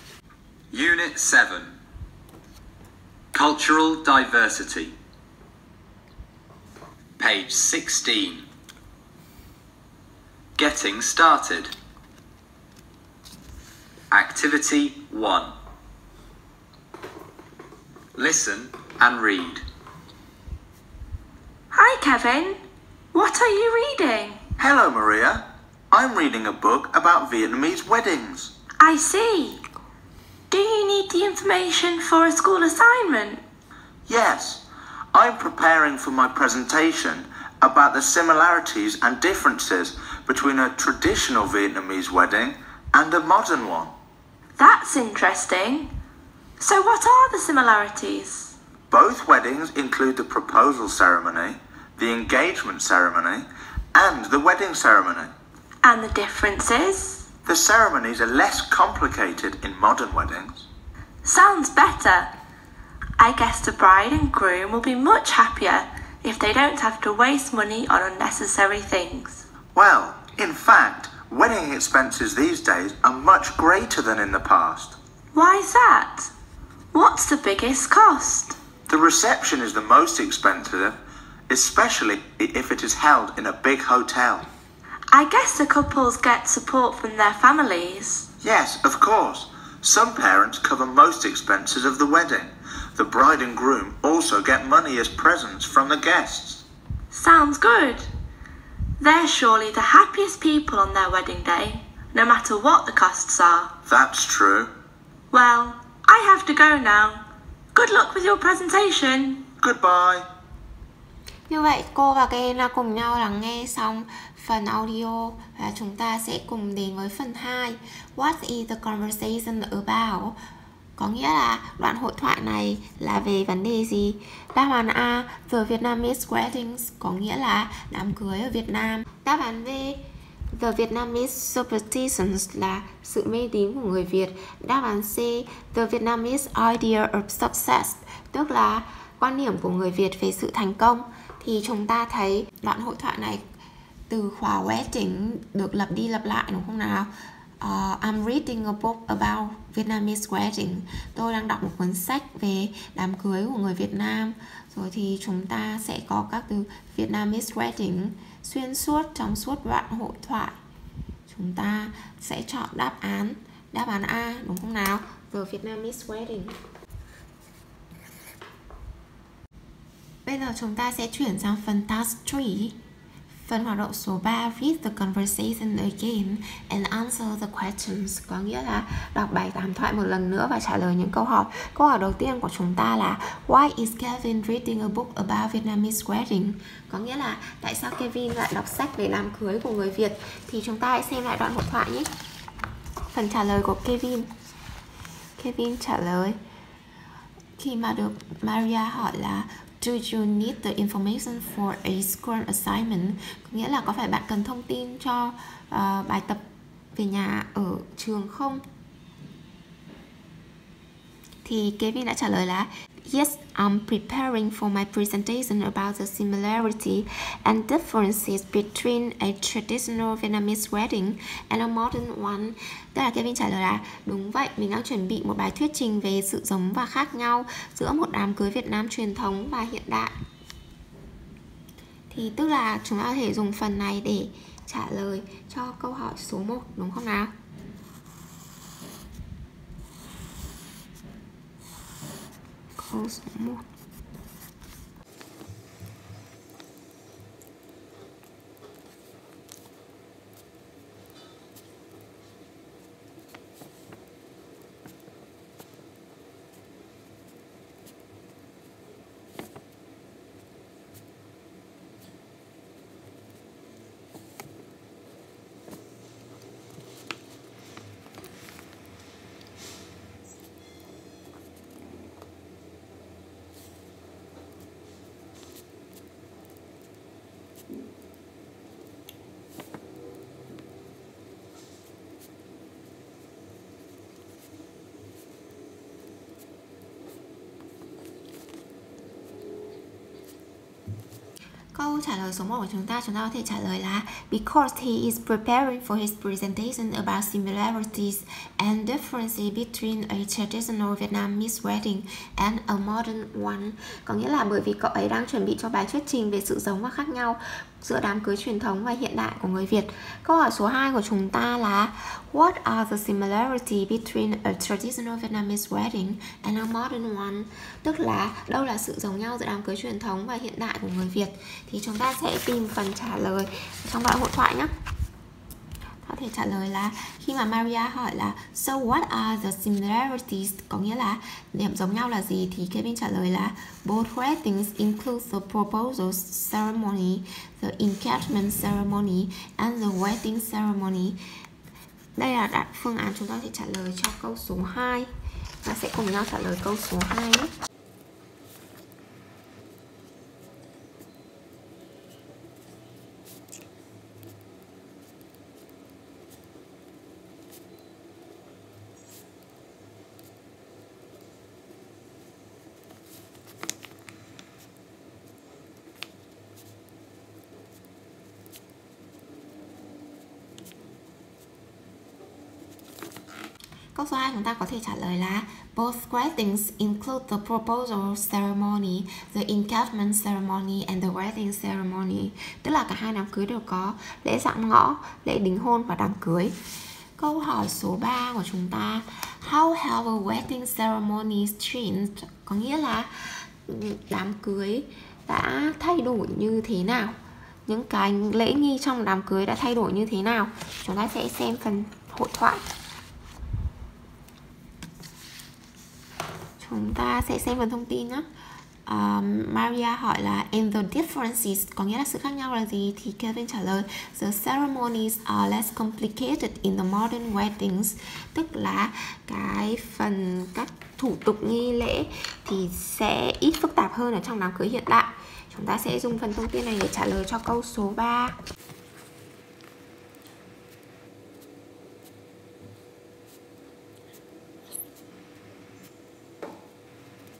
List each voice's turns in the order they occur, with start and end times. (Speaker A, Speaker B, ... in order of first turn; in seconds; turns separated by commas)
Speaker A: 0.7-1.7, Speaker A: 3.3-5.0, Speaker A: 7.2-8.4, Speaker A: 10.6-11.7, Speaker A: 14.1-15.5, Speaker A: 18.1-19.6, Speaker B: 21.7-22.6, Speaker B: 23.1-24.4, Speaker C: 24.6-28.5, Speaker B: 28.8-29.6, Speaker B: 30.5-33.4, Speaker C: 34.1-34.6, Speaker C: 35.1-43.9, Speaker B: 44.6-45.9, Speaker B: 46.6-48.5, Speaker C: 48.9-55.3, Speaker B: 55.8-57.2, Speaker C: 57.5-60.6, Speaker B: 61.2-62.3, Speaker B: 63.2-69.4, Speaker C: 69.7-75.0, Speaker B: 75.3-76.3, Speaker B: 76.9-78.6, Speaker C: 78.9-84.5, Speaker B: 85.1-88.2, Speaker C: 88.4-96.6, Speaker B: 97.1-98.1, Speaker B: 99.0-103.7, Speaker C: 103.9-104.7, Speaker B: 105.3-107.2, Speaker B: 107.7-109.4, Speaker C: 109.6-110.2, Speaker D: 111.5-120.4, Speaker D: 121.0-143.4, Speaker D: 144.1-160.6, Speaker D: 161.3-166.6, Speaker D: 170.2-172.8, Speaker D: 173.3-192.1, Speaker D: 193.1-194.3, Speaker D: 195.4-196.4, Speaker D: 197.6-206.4, Speaker D: 206.9-208.6, Speaker D: 211.4-230.1, Speaker D: 232.1-237.3, Speaker D: 242.8-243.6, Speaker D: 291.7-324.7, Speaker D: 326.0-341.2, Speaker D: 342.1-345.1, Speaker D: 345.6-347.5, Speaker D: 373.9-386.5, Speaker D: 387.2-397.1, Speaker D: 397.7-402.6, Speaker D: 406.6-408.3, Speaker D: 408.9-428.4